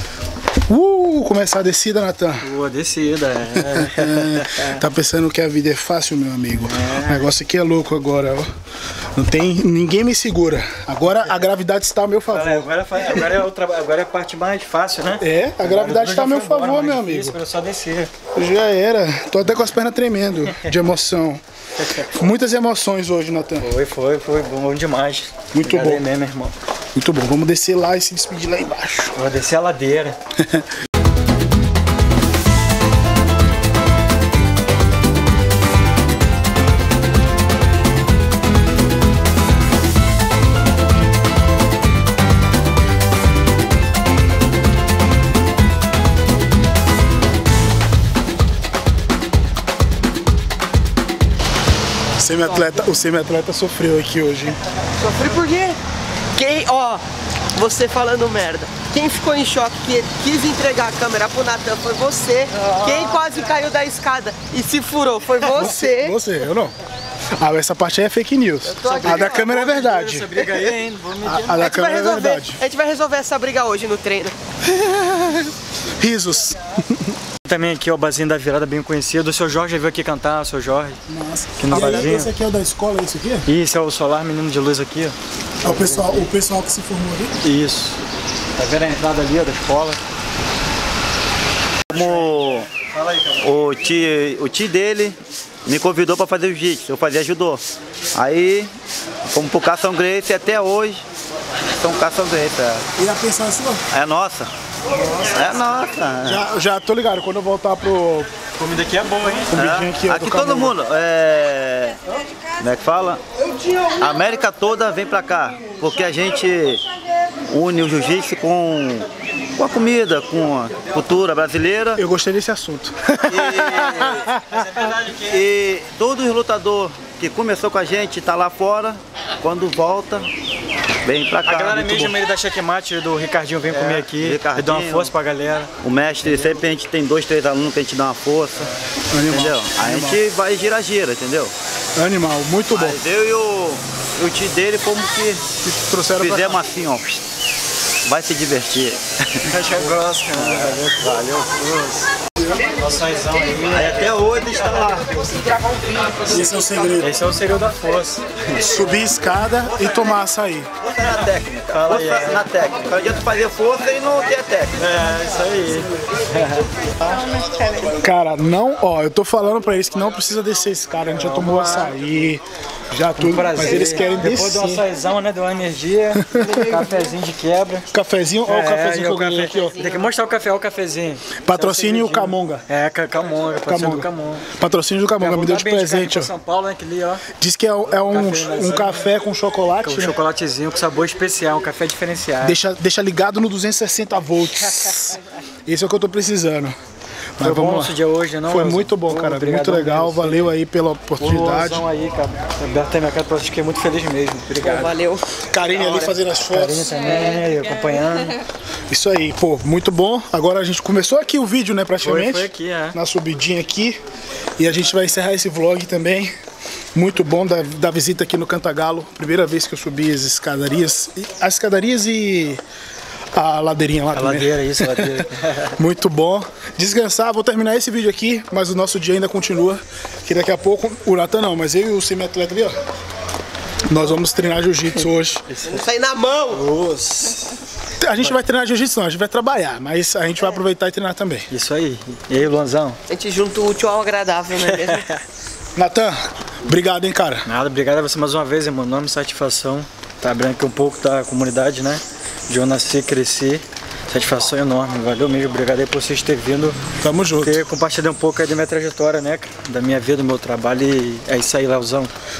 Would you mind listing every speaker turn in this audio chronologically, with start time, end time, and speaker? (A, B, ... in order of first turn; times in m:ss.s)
0:00.7-0:02.5 A
0:02.4-0:04.8 B
0:03.5-0:08.5 A
0:06.5-0:07.3 B
0:09.1-0:13.3 A
0:12.3-0:18.1 B
0:15.2-0:17.4 A
0:18.3-0:21.4 A
0:21.8-0:22.1 B
0:22.0-0:23.7 A
0:23.6-0:26.5 B
0:25.5-0:26.0 A
0:26.9-0:29.2 A
0:29.1-0:30.2 B
0:30.4-0:30.6 A
0:52.2-0:54.6 A
0:52.5-0:52.8 C
0:55.0-0:55.8 C
0:56.3-1:06.1 C
1:02.6-1:03.2 B
1:05.4-1:06.7 A
1:07.4-1:10.4 A
1:08.6-1:09.4 C
1:08.8-1:11.6 B
1:10.4-1:10.7 C
1:11.2-1:12.6 A
1:11.5-1:15.5 C
1:16.0-1:17.1 A
1:17.4-1:21.0 B
1:21.1-1:23.5 A
1:21.6-1:22.3 B
1:23.4-1:26.3 B
1:25.6-1:27.4 A
1:27.4-1:28.0 B
1:28.6-1:30.0 B
1:31.9-1:32.7 D
1:31.9-1:33.6 B
1:33.4-1:37.6 D
1:38.1-1:38.7 D
1:39.3-1:41.0 D
1:41.8-1:42.8 D
1:43.0-1:43.8 A
1:43.9-1:44.5 D
1:45.2-1:46.4 D
1:46.2-1:48.3 A
1:48.6-1:49.5 B
1:49.5-1:50.8 A
1:49.5-1:52.0 D
1:52.6-1:53.2 D
1:54.0-1:56.8 D
1:57.5-2:02.0 D
2:02.0-2:04.6 A
2:03.3-2:04.3 D
2:03.6-2:05.5 B
2:05.3-2:10.3 D
2:11.0-2:12.1 D
2:11.4-2:16.6 B
2:13.7-2:15.1 D
2:15.8-2:18.7 D
2:19.1-2:20.2 A
2:19.2-2:21.5 D
2:22.0-2:23.0 A
2:22.7-2:25.5 D
2:25.6-2:26.6 A
2:26.2-2:27.2 D
2:28.0-2:32.0 D
2:29.4-2:31.9 B
2:32.5-2:32.8 C
2:32.7-2:34.8 B
2:33.6-2:35.1 D
2:35.0-2:37.2 C
2:36.2-2:37.2 A
2:37.0-2:38.7 B
2:38.6-2:40.7 A
2:40.8-2:44.7 D
2:41.7-2:42.5 B
2:44.8-2:47.3 B
2:47.5-2:47.8 C
2:47.9-2:54.8 A
2:51.1-2:52.2 B
2:53.2-2:57.9 B
2:56.1-2:56.8 A
2:56.4-2:57.1 C
2:57.9-2:59.8 A
2:58.4-3:04.5 B
2:59.5-3:00.1 C
3:01.4-3:02.6 A
3:03.6-3:06.3 A
3:05.2-3:07.2 B
3:07.4-3:10.2 A
3:07.9-3:09.1 B
3:09.8-3:12.6 B
3:12.4-3:16.8 A
3:17.4-3:21.8 A
3:17.4-3:20.5 B
3:21.2-3:24.9 B
3:24.6-3:26.1 C
3:25.4-3:27.0 A
3:25.8-3:28.4 B
3:28.9-3:34.0 A
3:32.0-3:33.0 B
3:34.6-3:36.3 A
3:36.9-3:42.6 A
3:43.3-3:52.8 A
3:44.1-3:45.7 B
3:53.9-3:55.5 A
3:55.5-3:55.8 B
3:55.6-3:56.6 C
3:56.5-3:57.6 B
3:58.0-4:01.5 A
4:01.5-4:03.0 B
4:03.1-4:05.1 C
4:04.6-4:05.2 B
4:05.8-4:07.4 A
4:07.4-4:16.8 B
4:17.0-4:17.6 A
4:17.4-4:22.1 B